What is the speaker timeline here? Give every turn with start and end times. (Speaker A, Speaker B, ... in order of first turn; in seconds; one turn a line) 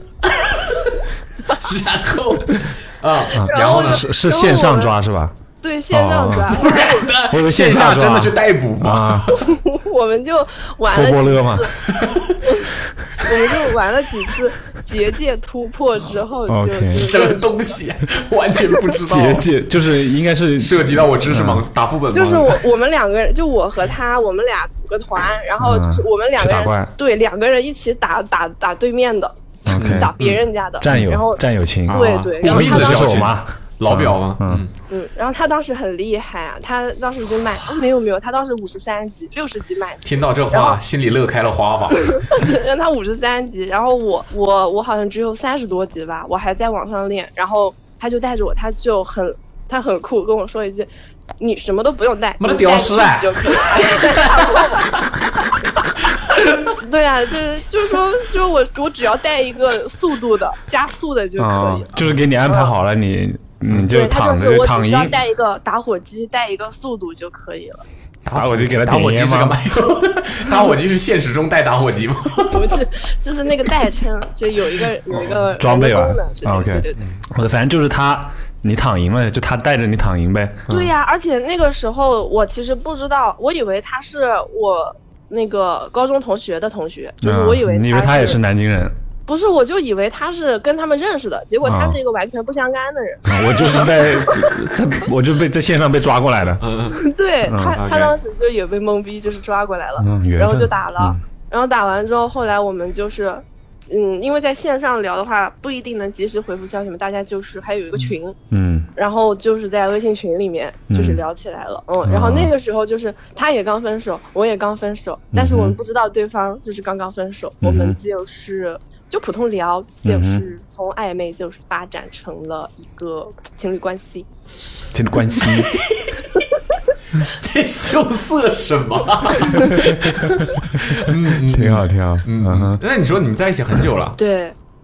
Speaker A: 0.2-4.1
Speaker B: 3.3-5.0
Speaker C: 3.4-5.4
Speaker B: 5.6-7.1
Speaker C: 5.9-6.6
Speaker A: 6.5-9.4
Speaker C: 7.2-9.3
Speaker B: 9.4-11.7
Speaker C: 10.9-11.7
Speaker A: 11.9-12.4
Speaker B: 12.4-17.6
Speaker C: 16.5-17.1
Speaker A: 16.9-19.5
Speaker C: 19.0-21.6
Speaker A: 20.6-22.6
Speaker B: 22.1-33.3
Speaker C: 25.6-26.9
Speaker C: 29.6-30.1
Speaker A: 29.8-31.0
Speaker C: 30.8-34.6
Speaker A: 31.9-34.7
Speaker B: 34.9-40.8
Speaker A: 40.0-42.4
Speaker B: 42.0-55.0
Speaker A: 52.4-55.5
Speaker B: 56.6-61.9
Speaker C: 61.4-65.2
Speaker B: 63.9-67.8
Speaker A: 68.2-72.8
Speaker C: 68.3-69.6
Speaker B: 72.5-77.0
Speaker C: 75.1-80.7
Speaker A: 80.7-80.9
Speaker B: 80.7-88.4
Speaker C: 87.2-88.9
Speaker B: 89.3-94.5
Speaker C: 91.6-92.0
Speaker C: 93.2-96.6
Speaker A: 96.6-97.0
Speaker B: 97.0-108.4
Speaker C: 97.5-97.8
Speaker A: 97.8-98.1
Speaker C: 100.0-101.2
Speaker C: 108.5-108.9
Speaker B: 109.0-124.3
Speaker C: 110.9-111.2
Speaker C: 112.1-112.5
Speaker C: 115.3-115.8
Speaker C: 117.6-118.0
Speaker C: 120.0-120.5
Speaker C: 124.9-125.8
Speaker A: 125.8-126.2
Speaker A: 127.1-134.2
Speaker C: 130.4-132.8
Speaker B: 134.2-134.6